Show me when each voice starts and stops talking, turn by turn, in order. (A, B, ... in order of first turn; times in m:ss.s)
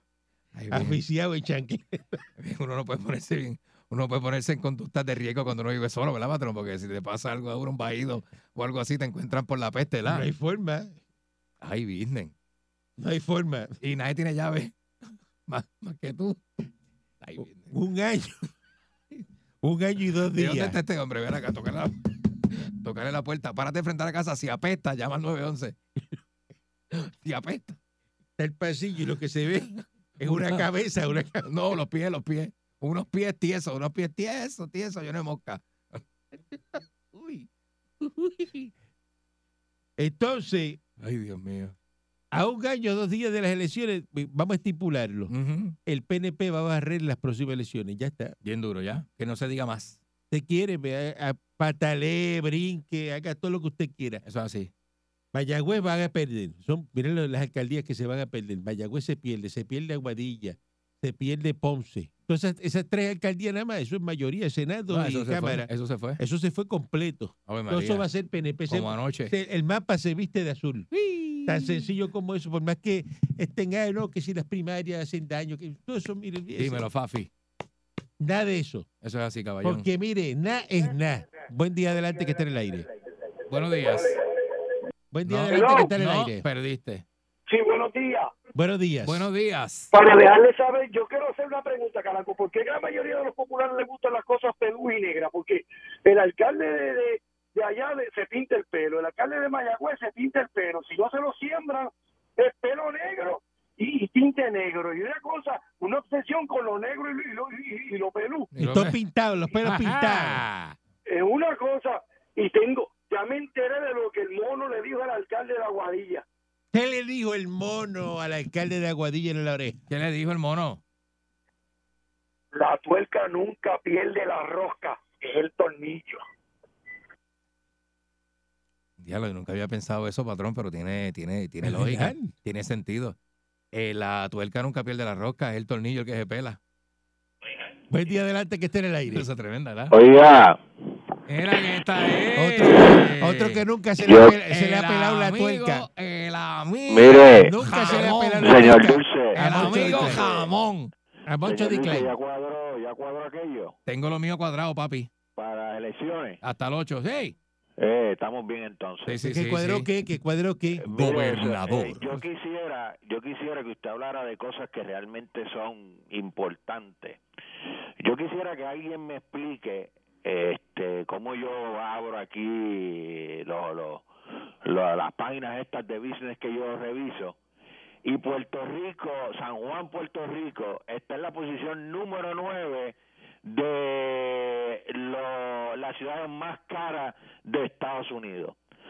0:00.6-0:01.0 A
0:00.7-0:02.2 B
0:02.4-0:10.3 A
0:10.0-0:11.0 B
0:11.6-0:12.3 A
0:13.0-0:13.8 B
0:13.8-0:14.8 A
0:15.5-0:16.4 A
0:17.2-0:17.7 A
0:17.7-0:18.4 B
0:19.6-0:20.8 B
0:20.4-0:25.8 A
0:26.9-0:27.8 A
0:28.4-0:31.5 B
0:30.2-0:30.7 A
0:31.4-0:37.4 A
0:40.0-0:40.8 B
0:41.0-0:41.8 A
0:42.3-0:45.3 B
0:45.3-0:45.8 A
0:45.9-0:48.4 B
0:48.4-0:50.0 A
0:50.3-0:54.2 B
0:54.2-0:54.7 A
0:55.3-1:16.9 B
1:04.9-1:06.2 A
1:07.5-1:08.1 A
1:08.7-1:09.3 A
1:16.6-1:17.3 A
1:18.2-1:18.9 B
1:19.0-1:19.9 A
1:19.6-1:22.9 B
1:23.5-1:24.2 A
1:23.8-1:24.3 C
1:25.1-1:26.4 B
1:25.2-1:27.0 A
1:25.5-1:25.9 C
1:27.5-1:28.3 C
1:28.6-1:29.3 B
1:29.0-1:29.9 A
1:29.9-1:48.5 C
1:48.5-1:49.0 A
1:48.6-1:50.5 B
1:49.6-1:50.8 A
1:51.1-1:56.2 C
1:56.7-1:59.8 B
1:59.9-2:00.8 A
2:02.5-2:06.2 C
2:09.0-2:13.2 A
2:11.6-2:12.3 B
2:13.7-2:16.6 A
2:17.9-2:19.3 B
2:19.1-2:20.0 A
2:19.9-2:20.6 D
2:21.3-2:23.6 A
2:22.4-2:25.9 B
2:24.0-2:24.3 D
2:24.2-2:30.9 A
2:26.9-2:27.5 D
2:27.4-2:30.2 B
2:28.4-2:30.5 D
2:31.3-2:32.1 B
2:31.4-2:33.8 D
2:33.9-2:35.1 A
2:35.4-2:36.4 D
2:36.4-2:37.4 A
2:37.8-2:39.2 D
2:39.1-2:39.9 A
2:39.2-2:40.8 B
2:40.8-2:42.2 A
2:40.8-2:47.2 D
2:48.0-2:54.1 D
2:54.6-2:57.4 D
2:58.0-3:08.6 D